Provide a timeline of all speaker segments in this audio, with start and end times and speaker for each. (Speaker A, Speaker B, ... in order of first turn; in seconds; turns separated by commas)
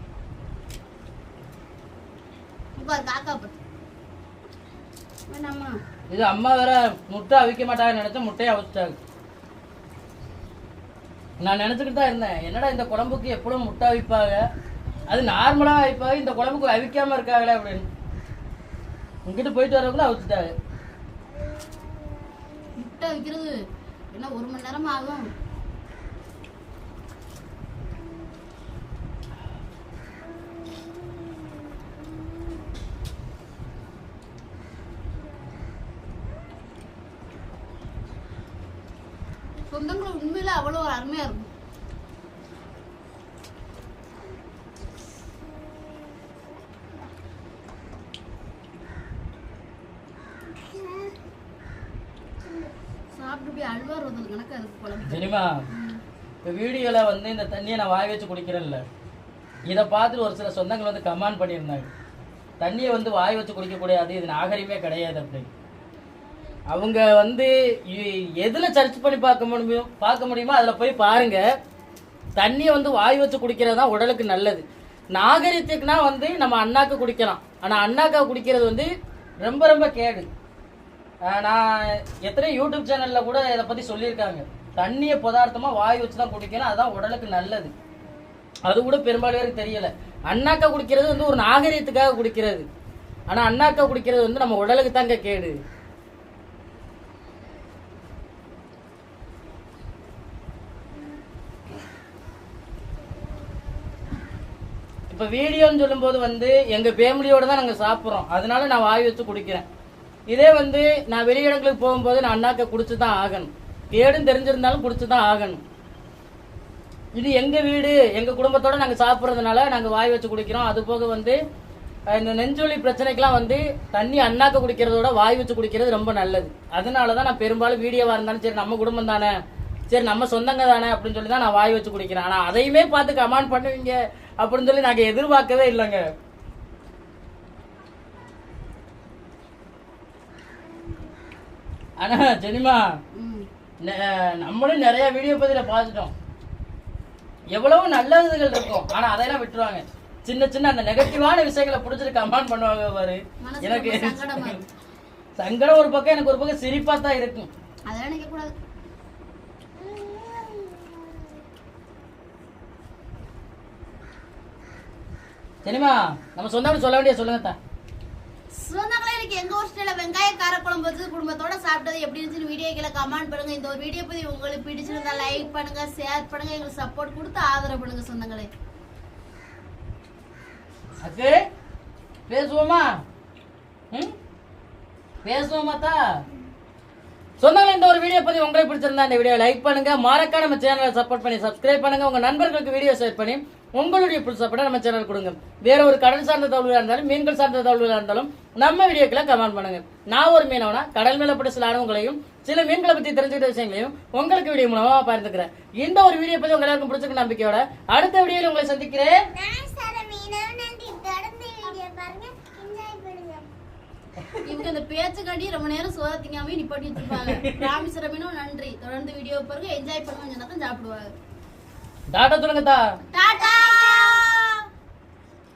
Speaker A: 2.8-3.5, Speaker A: 5.3-5.8, Speaker B: 6.1-9.0, Speaker B: 11.4-14.4, Speaker B: 15.1-17.9, Speaker B: 19.2-20.5, Speaker A: 22.8-23.6, Speaker A: 24.1-25.3, Speaker A: 39.7-41.5, Speaker A: 53.1-56.0, Speaker B: 55.0-55.6, Speaker B: 56.4-58.8, Speaker B: 59.7-61.9, Speaker B: 62.6-65.5, Speaker B: 66.7-71.4, Speaker B: 72.4-78.9, Speaker B: 79.4-80.3, Speaker B: 81.2-87.7, Speaker B: 88.7-92.7, Speaker B: 93.3-95.5, Speaker B: 105.1-109.7, Speaker B: 110.3-115.6, Speaker B: 117.1-121.4, Speaker B: 122.1-129.3, Speaker B: 129.9-136.0, Speaker B: 142.0-142.8, Speaker A: 143.1-143.5, Speaker B: 143.8-146.1, Speaker B: 147.5-154.5, Speaker A: 153.4-154.7, Speaker B: 155.4-157.5, Speaker A: 157.9-158.5, Speaker C: 159.9-160.8, Speaker B: 165.6-167.6, Speaker A: 168.5-178.5, Speaker B: 181.0-181.4, Speaker B: 182.3-182.9, Speaker B: 185.2-186.0, Speaker B: 187.4-209.2, Speaker C: 209.4-213.5, Speaker A: 214.4-221.1, Speaker B: 217.0-217.7, Speaker B: 222.1-222.8, Speaker A: 223.1-224.7, Speaker C: 223.2-224.2